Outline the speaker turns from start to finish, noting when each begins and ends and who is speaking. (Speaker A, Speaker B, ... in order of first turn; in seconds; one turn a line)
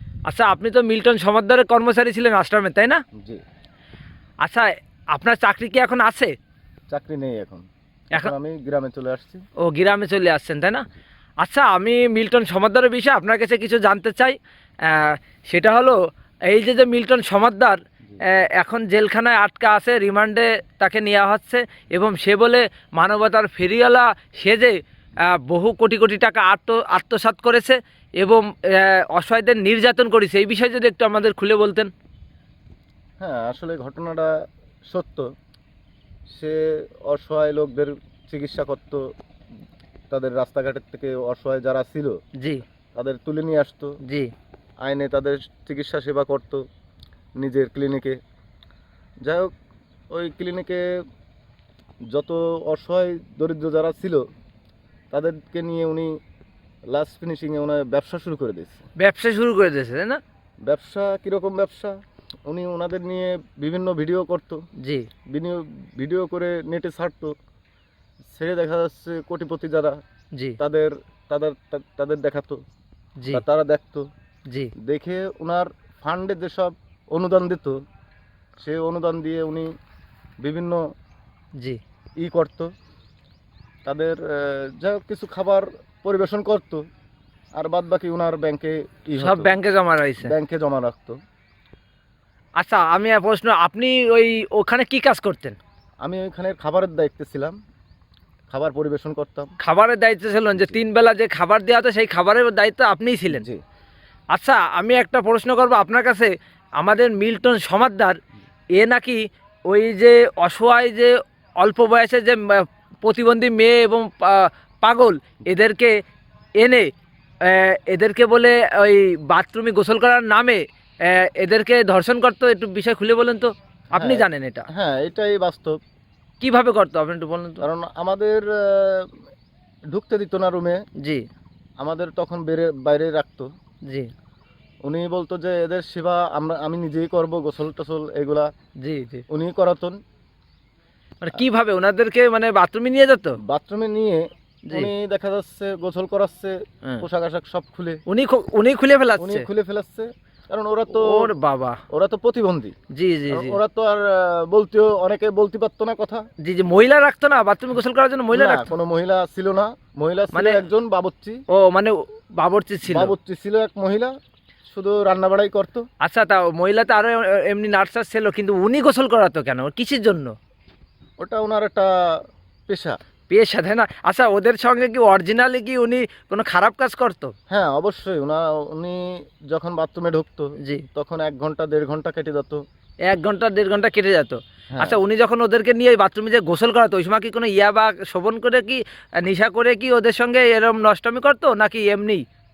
Speaker A: 0.3-3.0
Speaker A: 4.4-6.3
Speaker B: 6.9-9.4
Speaker A: 9.6-10.8
Speaker A: 11.4-16.0
Speaker A: 16.5-24.8
Speaker A: 25.3-31.9
Speaker B: 33.2-34.3
Speaker B: 34.9-35.3
Speaker B: 36.3-39.1
Speaker B: 40.1-42.2
Speaker A: 42.4-42.6
Speaker B: 43.0-44.0
Speaker A: 44.0-44.3
Speaker B: 44.8-46.6
Speaker B: 47.4-48.2
Speaker B: 49.2-49.5
Speaker B: 50.1-50.9
Speaker B: 52.1-54.2
Speaker B: 55.1-56.1
Speaker B: 56.9-58.8
Speaker A: 59.0-60.2
Speaker B: 60.7-61.9
Speaker B: 62.5-64.6
Speaker A: 64.8-65.1
Speaker B: 65.3-67.3
Speaker B: 68.3-70.0
Speaker B: 70.6-72.6
Speaker B: 73.3-74.0
Speaker B: 74.8-77.8
Speaker B: 78.6-79.7
Speaker B: 80.4-80.8
Speaker B: 82.2-82.7
Speaker B: 83.8-86.8
Speaker B: 87.6-89.5
Speaker A: 89.2-90.3
Speaker B: 90.2-91.2
Speaker A: 92.6-95.6
Speaker B: 96.0-97.5
Speaker B: 98.5-99.5
Speaker A: 99.6-103.4
Speaker B: 103.3-103.6
Speaker A: 104.3-108.2
Speaker A: 108.8-115.9
Speaker A: 116.6-116.9
Speaker A: 117.4-124.7
Speaker B: 123.9-125.7
Speaker A: 126.4-127.6
Speaker B: 127.6-129.1
Speaker B: 129.9-130.8
Speaker A: 131.0-131.2
Speaker B: 131.8-133.5
Speaker A: 133.8-134.1
Speaker B: 134.8-138.5
Speaker A: 138.8-139.2
Speaker B: 139.3-140.0
Speaker A: 141.2-143.4
Speaker B: 143.5-148.0
Speaker A: 148.1-149.4
Speaker B: 149.2-151.3
Speaker A: 150.9-151.8
Speaker B: 151.9-152.7
Speaker A: 152.9-153.6
Speaker B: 153.3-156.2
Speaker A: 156.4-158.7
Speaker B: 158.3-161.4
Speaker A: 160.3-160.6
Speaker A: 161.5-163.1
Speaker B: 162.9-164.1
Speaker B: 164.7-165.8
Speaker A: 166.0-170.3
Speaker B: 171.2-171.9
Speaker B: 172.7-172.9
Speaker A: 173.3-177.3
Speaker B: 177.5-182.6
Speaker A: 180.6-180.8
Speaker A: 183.1-192.2
Speaker B: 184.7-185.0